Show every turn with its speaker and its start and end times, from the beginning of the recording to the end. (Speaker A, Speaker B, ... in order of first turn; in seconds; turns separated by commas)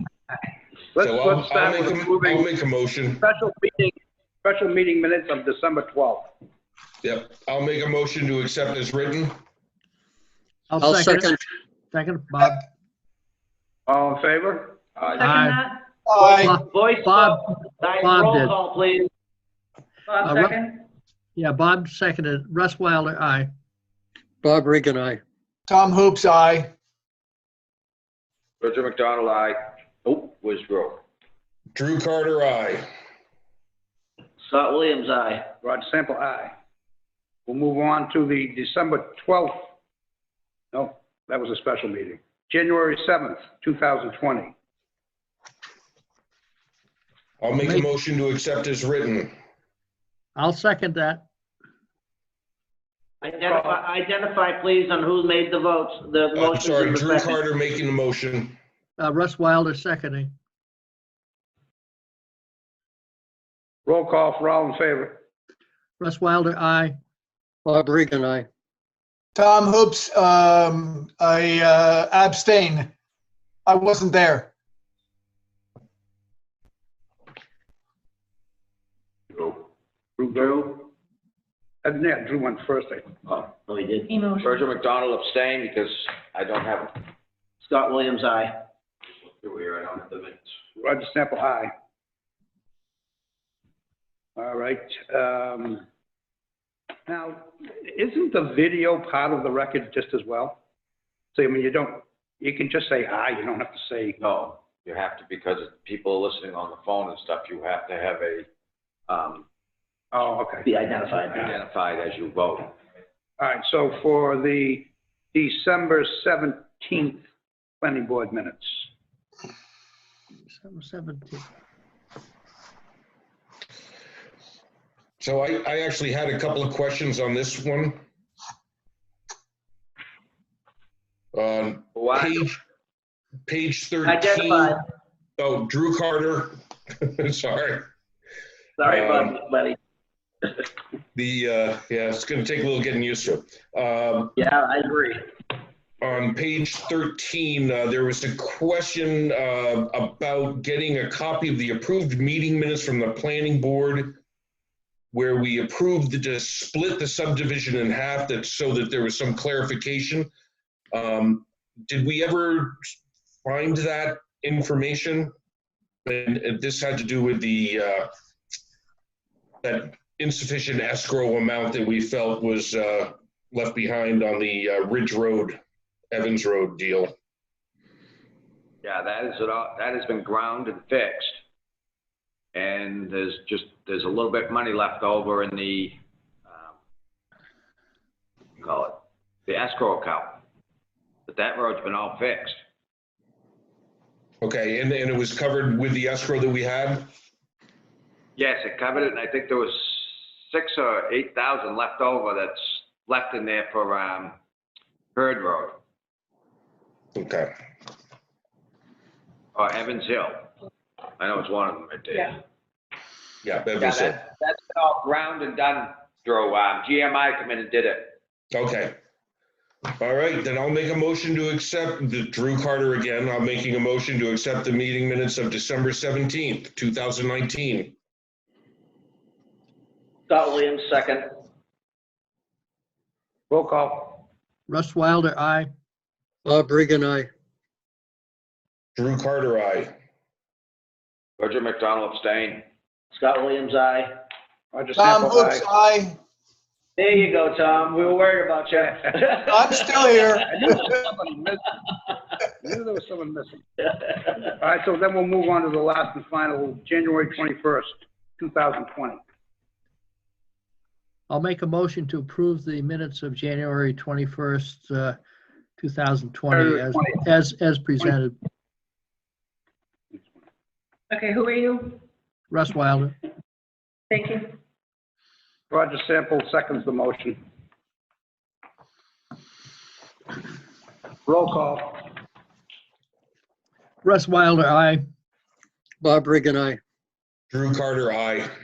Speaker A: 0.9-2.5, Speaker B: 1.0-3.2, Speaker A: 3.2-6.3, Speaker B: 7.0-9.3, Speaker C: 10.7-11.3, Speaker D: 10.8-11.4, Speaker C: 11.9-12.6, Speaker A: 13.9-14.8, Speaker C: 15.2-15.6, Speaker E: 15.2-15.8, Speaker F: 16.1-16.6, Speaker C: 16.2-18.6, Speaker G: 16.6-19.1, Speaker E: 20.1-20.8, Speaker C: 20.2-20.6, Speaker C: 21.4-23.5, Speaker D: 24.4-25.2, Speaker F: 25.7-26.7, Speaker H: 28.6-31.0, Speaker B: 31.7-32.8, Speaker G: 34.4-35.5, Speaker A: 35.6-36.5, Speaker A: 37.5-39.7, Speaker A: 40.7-44.5, Speaker B: 47.4-49.3, Speaker C: 47.6-47.9, Speaker C: 50.4-51.3, Speaker G: 53.2-57.4, Speaker A: 53.3-53.8, Speaker B: 56.3-58.6, Speaker C: 59.0-60.3, Speaker A: 63.9-65.2, Speaker C: 66.0-67.0, Speaker D: 67.6-68.5, Speaker F: 69.3-72.9, Speaker F: 73.7-74.5, Speaker A: 80.2-80.8, Speaker G: 80.3-80.8, Speaker A: 81.8-83.1, Speaker G: 83.7-84.1, Speaker E: 84.1-84.6, Speaker H: 84.4-87.0, Speaker G: 87.6-88.5, Speaker H: 89.4-90.4, Speaker A: 90.8-91.7, Speaker A: 94.4-95.8, Speaker A: 97.1-100.6, Speaker A: 101.3-104.2, Speaker H: 104.2-108.5, Speaker H: 109.1-109.5, Speaker A: 110.1-110.7, Speaker G: 110.6-111.5, Speaker H: 111.4-112.7, Speaker A: 113.4-117.2, Speaker A: 117.8-118.9, Speaker C: 120.5-121.5, Speaker B: 125.2-128.0, Speaker B: 131.3-132.6, Speaker H: 131.9-132.4, Speaker B: 133.5-134.8, Speaker G: 134.0-134.8, Speaker B: 135.4-137.8, Speaker G: 138.8-139.8, Speaker B: 138.8-139.4, Speaker B: 141.1-144.3, Speaker G: 144.4-145.2, Speaker B: 146.0-154.2, Speaker B: 155.1-160.3, Speaker B: 160.9-165.3, Speaker B: 166.0-168.1, Speaker B: 169.6-175.6, Speaker B: 176.1-177.1, Speaker H: 178.8-181.3, Speaker H: 182.5-186.7, Speaker H: 188.6-190.4, Speaker H: 191.3-192.6, Speaker B: 194.4-197.1, Speaker H: 198.3-204.3, Speaker H: 205.1-205.8, Speaker B: 207.1-207.5, Speaker H: 209.5-210.5, Speaker H: 211.2-212.4, Speaker B: 213.4-214.2, Speaker H: 213.8-218.2, Speaker B: 218.5-218.9, Speaker B: 220.0-227.9, Speaker G: 230.3-231.3, Speaker A: 233.5-234.2, Speaker C: 234.7-235.7, Speaker D: 236.4-237.3, Speaker B: 238.9-239.9, Speaker H: 241.4-242.7, Speaker G: 243.1-244.1, Speaker A: 244.7-245.7, Speaker F: 244.9-246.2, Speaker G: 247.0-250.1, Speaker F: 249.4-250.4, Speaker A: 250.5-251.8, Speaker A: 252.5-253.6, Speaker A: 254.5-259.2, Speaker C: 261.3-265.2, Speaker C: 265.8-268.3, Speaker A: 266.5-267.0, Speaker E: 271.1-272.0, Speaker C: 272.5-273.1, Speaker E: 274.1-274.6, Speaker A: 275.7-277.4, Speaker A: 281.2-282.0, Speaker C: 284.0-285.0, Speaker D: 286.0-286.8, Speaker B: 287.5-288.5